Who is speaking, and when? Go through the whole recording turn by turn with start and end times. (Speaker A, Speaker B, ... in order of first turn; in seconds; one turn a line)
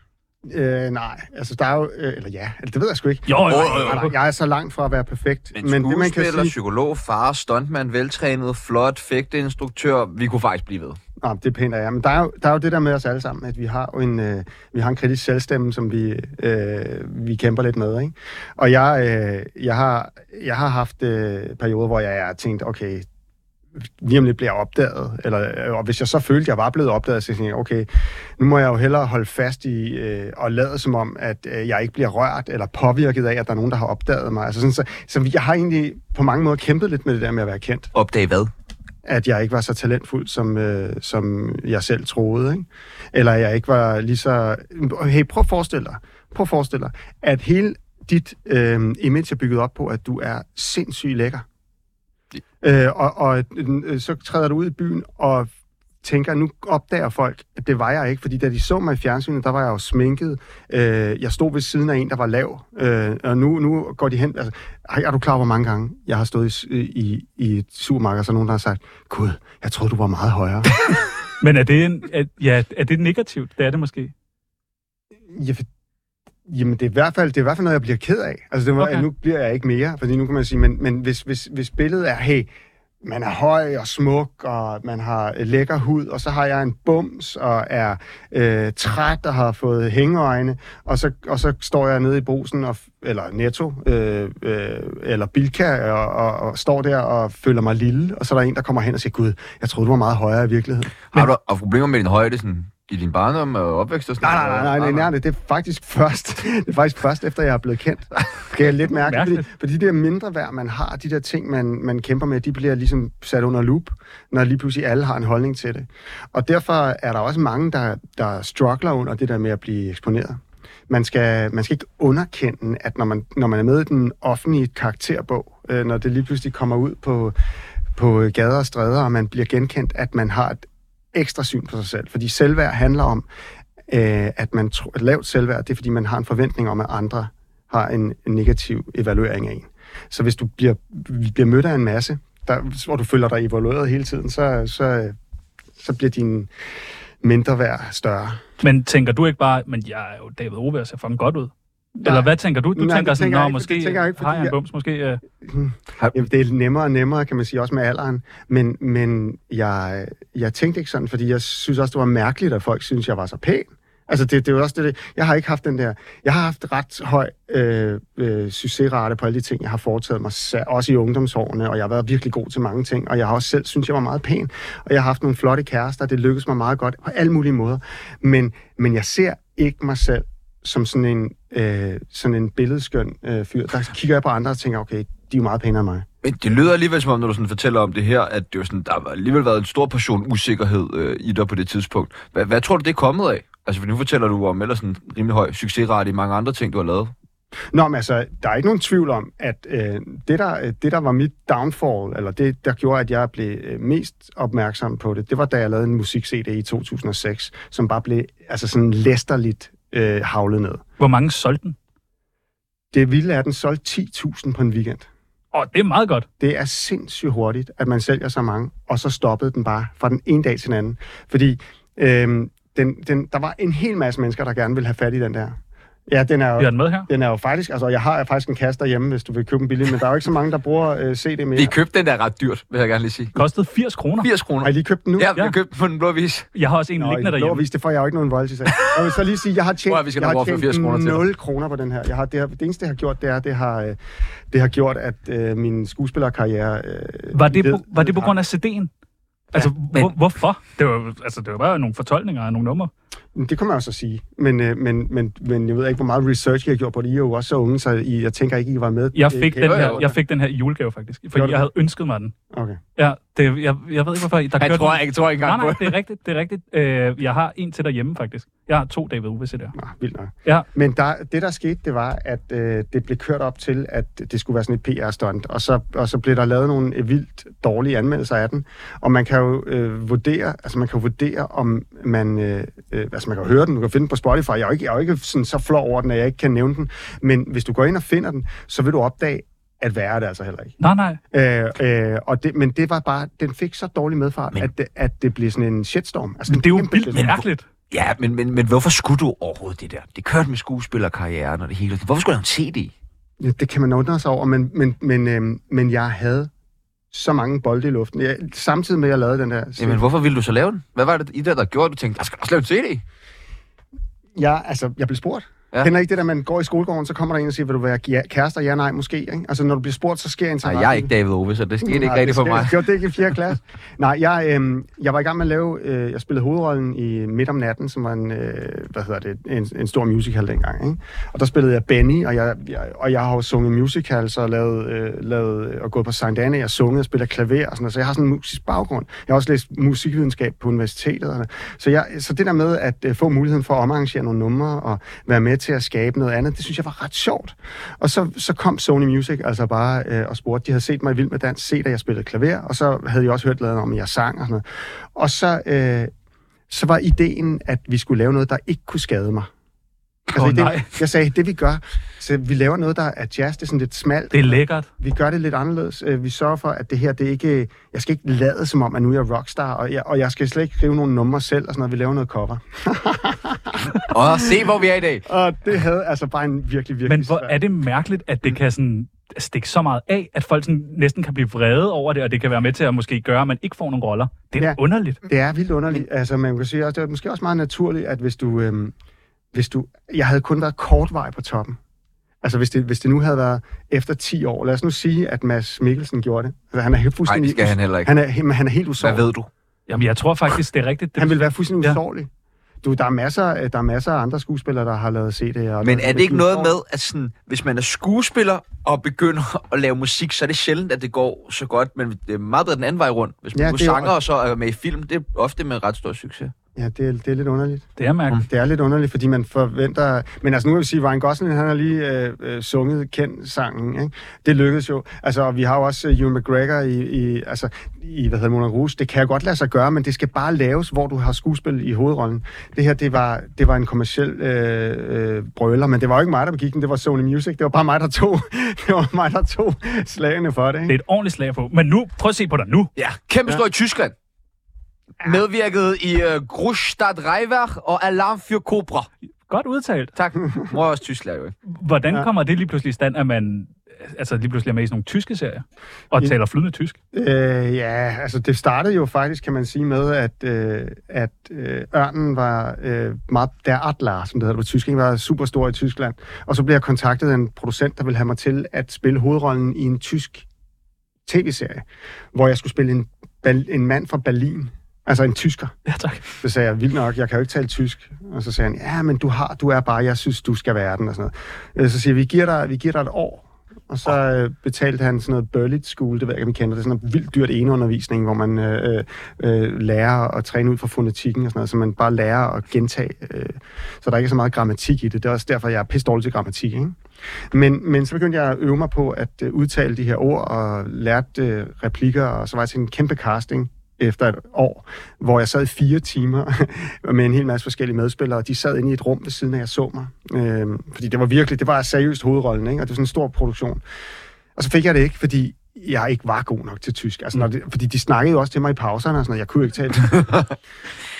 Speaker A: 0.4-6.5
Speaker B: 3.3-4.1
Speaker C: 3.5-4.0
Speaker C: 5.5-11.0
Speaker A: 11.2-23.1
Speaker A: 23.8-27.9
Speaker A: 28.4-37.9
Speaker C: 37.9-38.5
Speaker A: 39.0-51.4
Speaker A: 52.6-55.5
Speaker A: 56.0-70.7
Speaker B: 71.4-74.1
Speaker A: 75.3-75.7
Speaker A: 76.5-82.5
Speaker B: 78.8-79.0
Speaker A: 83.0-101.0
Speaker C: 101.1-105.1
Speaker A: 104.2-127.4
Speaker B: 109.0-109.5
Speaker A: 127.9-133.2
Speaker A: 133.9-145.2
Speaker A: 145.8-146.5
Speaker A: 147.2-148.4
Speaker B: 148.6-155.2
Speaker A: 152.0-154.6
Speaker A: 155.4-186.1
Speaker C: 186.2-197.1
Speaker A: 197.7-210.8
Speaker B: 211.0-211.8
Speaker A: 212.9-215.1
Speaker B: 215.5-216.3
Speaker A: 216.4-231.7
Speaker B: 226.6-227.1
Speaker C: 231.6-233.3
Speaker B: 233.3-234.3
Speaker C: 234.2-236.5
Speaker A: 234.6-235.3
Speaker B: 236.5-237.6
Speaker A: 237.0-244.0
Speaker C: 239.9-241.2
Speaker A: 244.5-248.3
Speaker B: 247.3-248.9
Speaker B: 249.5-252.9
Speaker A: 253.3-260.1
Speaker B: 259.1-262.3
Speaker C: 259.6-260.1
Speaker A: 261.3-261.7
Speaker A: 262.5-262.8
Speaker B: 263.0-269.7
Speaker C: 264.6-265.9
Speaker A: 269.7-290.7
Speaker B: 290.8-291.2
Speaker A: 291.3-297.4
Speaker B: 296.5-297.6
Speaker C: 297.9-302.9
Speaker A: 303.4-306.5
Speaker A: 307.1-310.0
Speaker C: 309.8-313.0
Speaker A: 314.4-321.1
Speaker C: 320.6-322.9
Speaker A: 321.8-356.1
Speaker A: 356.7-359.5
Speaker A: 360.3-374.6
Speaker B: 360.3-360.9
Speaker B: 364.3-364.9
Speaker C: 374.1-375.2
Speaker A: 375.2-377.6
Speaker B: 377.1-385.2
Speaker A: 384.6-388.9
Speaker A: 389.5-391.8
Speaker A: 392.4-399.3
Speaker C: 397.2-398.1
Speaker C: 399.0-399.5
Speaker B: 399.9-402.0
Speaker A: 401.2-402.3
Speaker A: 402.8-406.7
Speaker C: 405.8-416.5
Speaker A: 413.5-414.1
Speaker A: 416.7-417.9
Speaker B: 418.0-418.4
Speaker A: 418.4-440.9
Speaker B: 440.9-442.9
Speaker C: 442.9-444.1
Speaker C: 445.2-449.1
Speaker B: 449.5-450.1
Speaker C: 450.1-451.5
Speaker B: 451.7-456.9
Speaker A: 457.1-470.4
Speaker A: 471.2-475.7
Speaker B: 475.9-476.2
Speaker A: 476.4-497.0
Speaker A: 497.5-513.8
Speaker A: 514.5-520.4